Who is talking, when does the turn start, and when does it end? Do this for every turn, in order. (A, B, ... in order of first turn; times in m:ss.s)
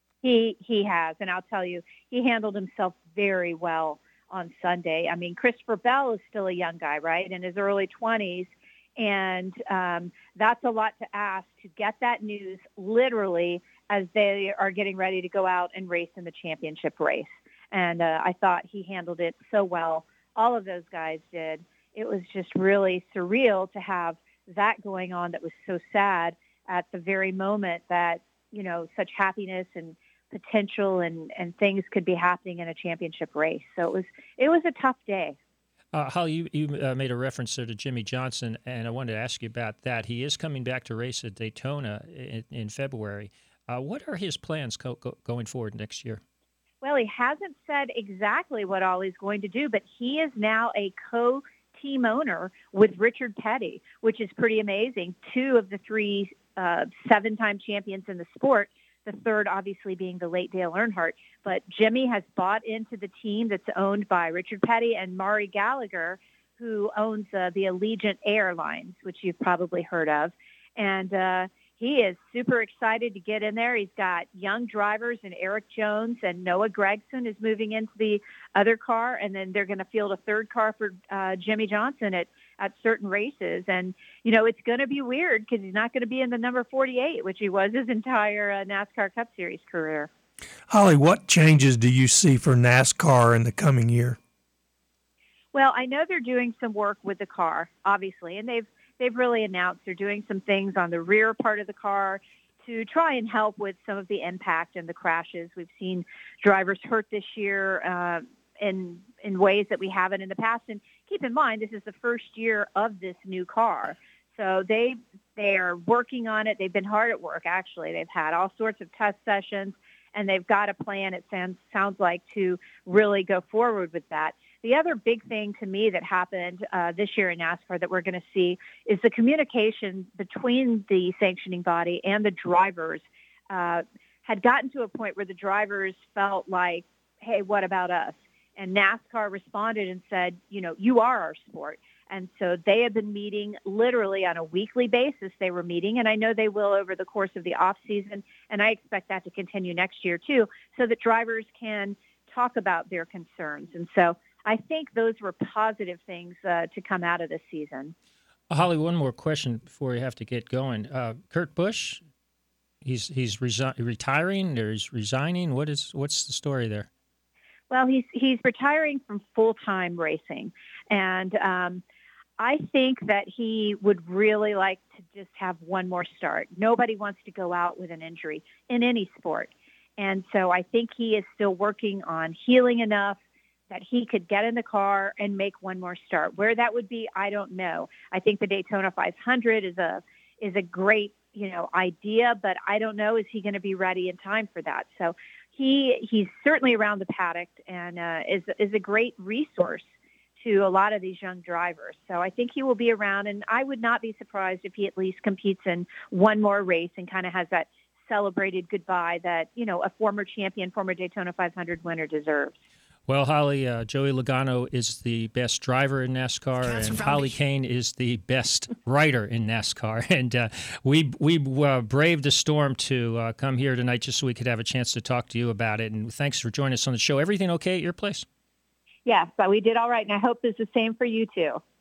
0:00.2-0:35.4 A
0:35.9-0:46.2 B
0:46.8-1:30.1 A
1:30.7-1:34.2 C
1:35.5-2:37.9 A
2:38.5-2:42.0 B
2:42.8-2:46.9 B
2:47.7-2:51.8 A
2:52.4-3:03.2 A
3:03.7-3:19.9 A
3:20.4-3:32.5 A
3:33.1-3:48.2 B
3:49.0-3:51.6 A